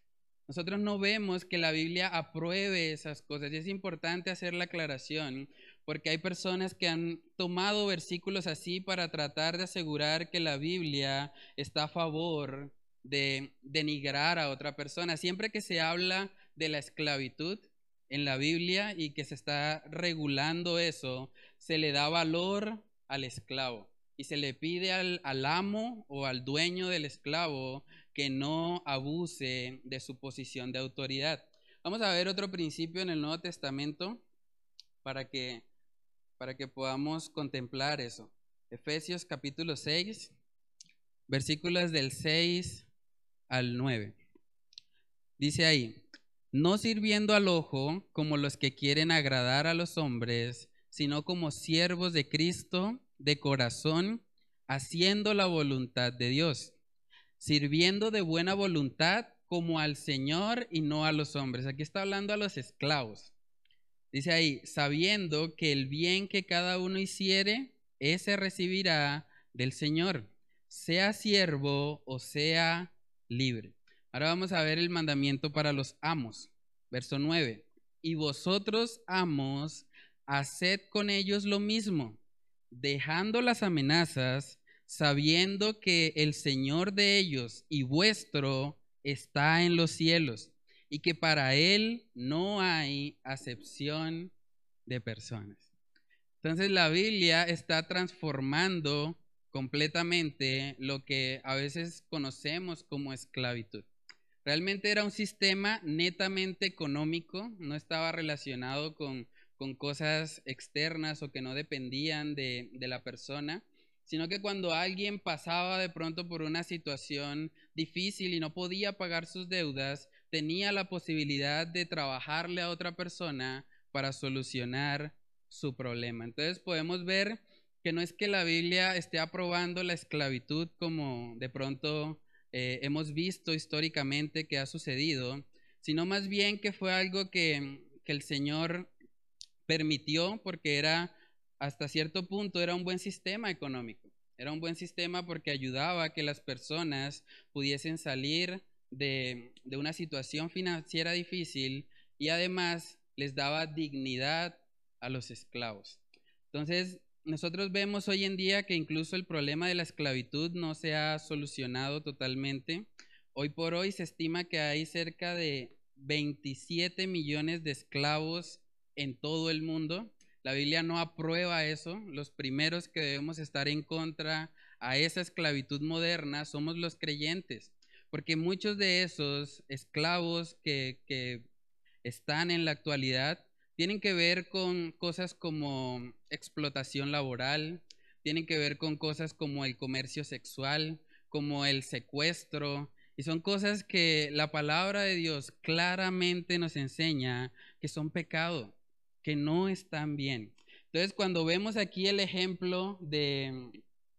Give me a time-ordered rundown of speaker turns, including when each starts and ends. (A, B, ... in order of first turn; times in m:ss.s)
0:00.5-0:34.2 A
0:35.0-0:35.6 A
0:36.4-0:40.3 A
0:41.3-0:42.9 A
0:43.5-0:44.2 A
0:45.4-0:46.0 A
0:46.5-0:56.8 A
0:57.4-1:03.3 A
1:04.1-1:22.2 A
1:22.7-1:34.3 A
1:34.9-1:35.7 A
1:36.4-1:43.8 A
1:44.4-2:18.9 A
2:19.6-2:36.0 A
2:36.5-3:01.5 A
3:02.0-3:23.8 A